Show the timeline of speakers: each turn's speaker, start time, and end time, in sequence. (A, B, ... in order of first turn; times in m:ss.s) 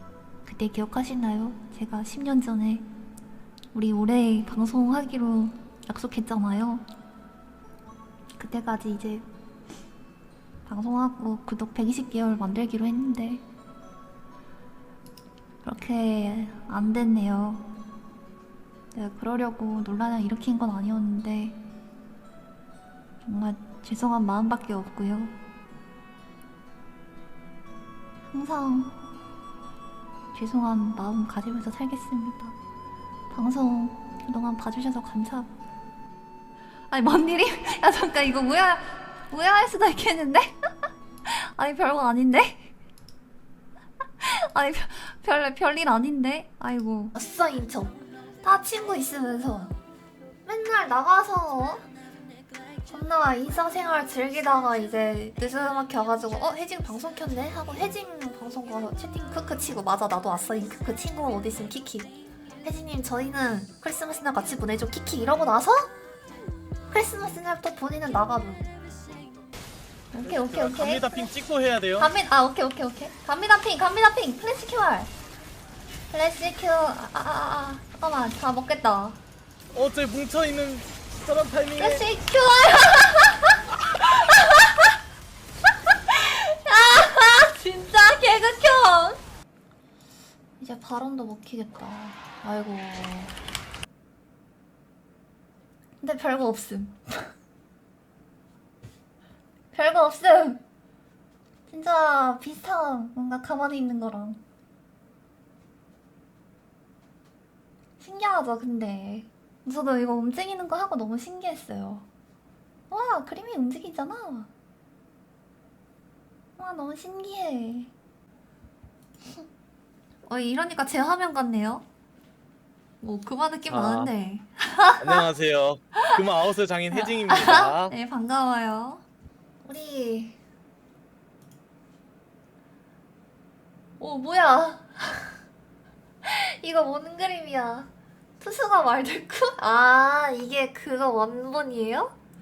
0:00.4-0:02.9 A
0:03.7-0:06.8 A
0:08.4-0:09.3 A
0:10.7-0:13.4 A
0:15.6-0:17.7 A
0:18.9-0:21.6 A
0:23.2-0:25.3 A
0:28.3-0:29.0 A
0:30.3-0:32.6 A
0:33.3-0:35.5 A
0:36.9-0:40.7 A
0:41.2-0:42.7 A
0:44.2-0:49.8 A
0:50.4-0:51.8 A
0:52.9-1:05.9 A
1:06.9-1:08.7 A
1:10.1-1:11.2 A
1:10.3-1:12.1 B
1:12.0-1:15.1 A
1:16.1-1:19.2 A
1:19.7-1:22.0 B
1:21.8-1:25.0 A
1:25.9-1:29.2 A
1:30.6-1:33.4 A
1:36.0-1:37.3 A
1:39.7-1:40.6 A
1:41.7-1:44.4 A
1:48.0-1:52.1 A
1:52.9-1:54.5 A
1:56.6-1:57.9 A
2:00.3-2:01.9 A
2:03.0-2:05.2 A
2:03.7-2:04.1 B
2:05.0-2:07.9 B
2:06.9-2:09.0 A
2:09.6-2:10.4 A
2:14.0-2:15.4 A
2:16.2-2:22.1 A